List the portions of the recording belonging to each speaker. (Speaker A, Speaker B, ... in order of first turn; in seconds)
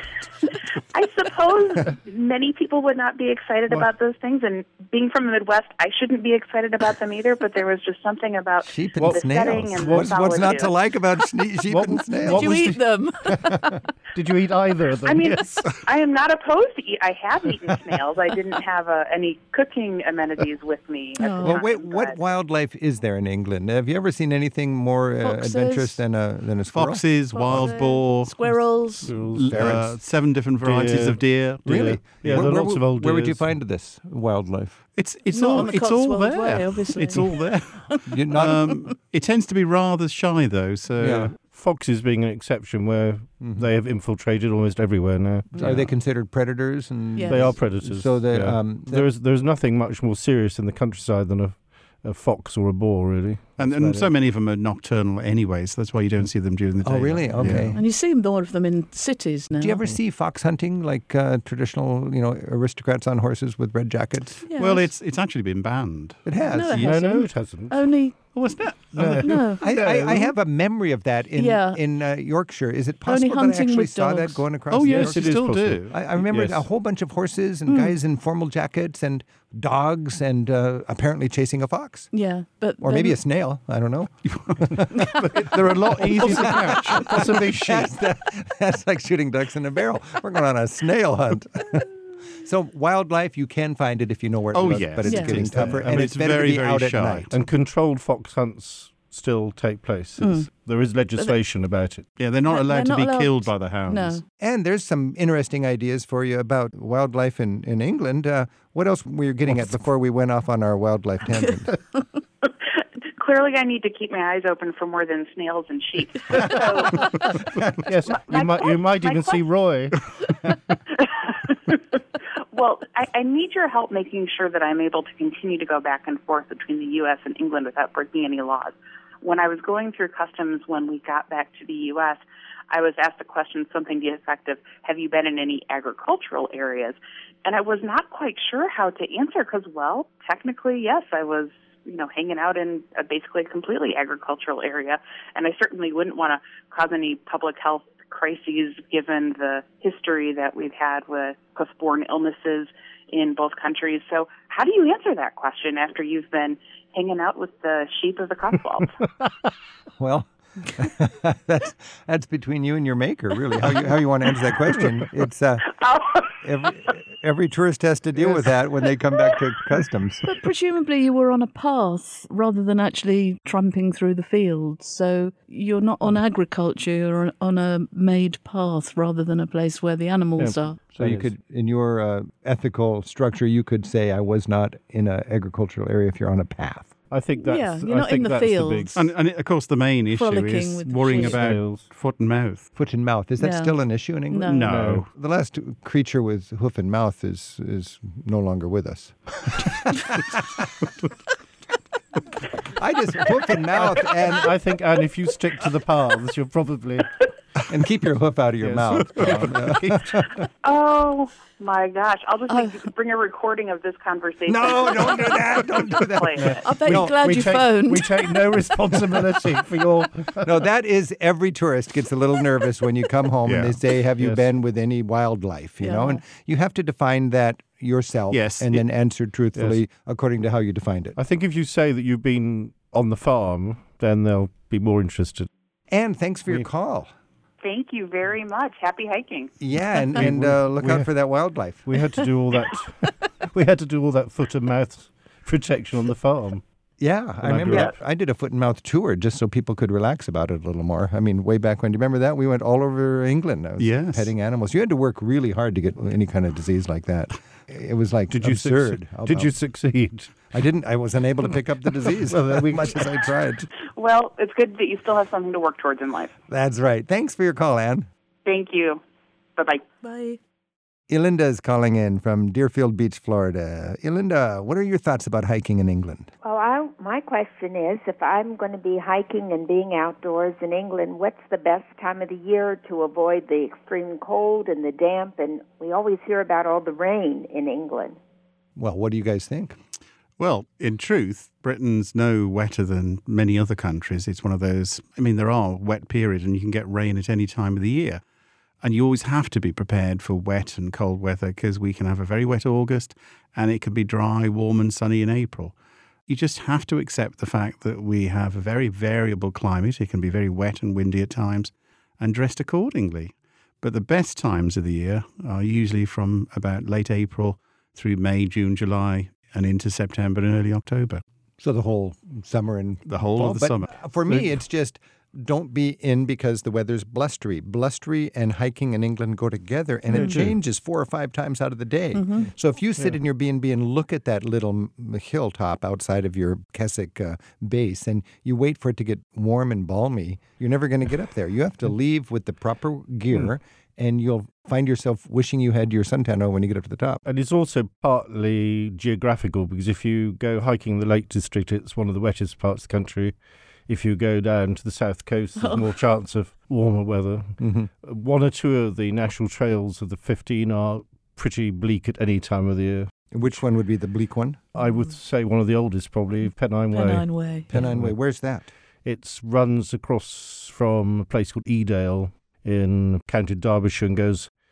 Speaker A: 0.9-10.8, 15.1-22.2, 112.4-117.2, 118.1-119.4, 121.0-121.8, 122.5-158.9, 165.8-166.3, 210.6-216.7, 237.6-239.5, 264.0-266.3, 268.5-269.0, 269.6-269.8
Speaker B: 8.7-12.6, 21.4-27.1, 29.4-29.9, 31.6-34.8, 38.1-38.7, 41.0-41.3, 43.4-43.7, 45.5-49.1, 53.6-54.1, 56.8-57.8, 59.6-64.5, 66.2-66.8, 69.6-82.1, 82.8-85.0, 86.0-97.3, 104.4-111.7, 160.0-165.8, 166.3-170.3, 181.0-186.9, 192.8-200.7, 202.7-204.5, 207.6-210.3, 214.5-217.2, 220.4-231.2, 235.9-237.1, 239.6-242.0, 247.0-259.6, 260.5-263.7, 266.5-268.1, 271.1-276.3, 288.8-289.8, 321.6-347.2, 357.6-357.9, 363.3-364.6, 367.7-368.7
Speaker C: 9.0-10.5, 11.7-13.6, 14.1-15.6, 29.0-29.9, 30.6-33.6, 41.4-46.0, 47.3-53.6, 66.8-68.0, 69.0-69.4, 74.8-76.7, 84.9-87.9, 97.3-102.1, 117.9-120.0, 180.4-181.3, 187.1-189.1, 191.2-191.9, 194.7-195.1, 203.8-207.2, 208.6-210.2, 216.4-220.6, 224.2-224.5, 229.6-229.8, 231.2-235.5, 240.2-241.1, 241.9-246.6, 247.4-247.9, 258.3-260.5, 262.1-263.0, 330.1-330.6, 347.2-353.4, 353.9-357.5, 358.0-363.6, 364.8-368.2, 369.1-374.5
Speaker D: 12.3-13.9, 21.2-21.6, 25.2-26.0, 27.3-29.1, 35.3-38.8, 47.1-47.5, 57.7-59.9, 64.5-64.9, 66.5-68.2, 69.1-69.6, 71.3-71.8, 73.1-74.5, 77.7-78.0, 82.1-83.2, 95.1-95.5, 100.2-100.5, 102.5-104.2, 170.2-180.8, 187.4-189.0, 190.1-191.5, 193.4-194.7, 212.5-212.7, 216.6-218.4, 225.8-226.2, 270.0-270.4, 330.1-330.4, 332.2-332.5, 355.6-355.9, 366.9-367.7
Speaker E: 26.7-32.6, 35.0-41.4, 53.6-57.7, 64.5-67.1, 68.3-70.3, 74.7-76.1, 84.3-84.8, 85.4-87.4, 94.5-97.3, 102.2-104.2, 188.9-192.7, 194.4-195.1, 228.3-228.8, 253.8-254.3, 290.4-298.2, 298.8-305.8, 306.3-321.2, 323.1-324.6
Speaker F: 276.4-288.2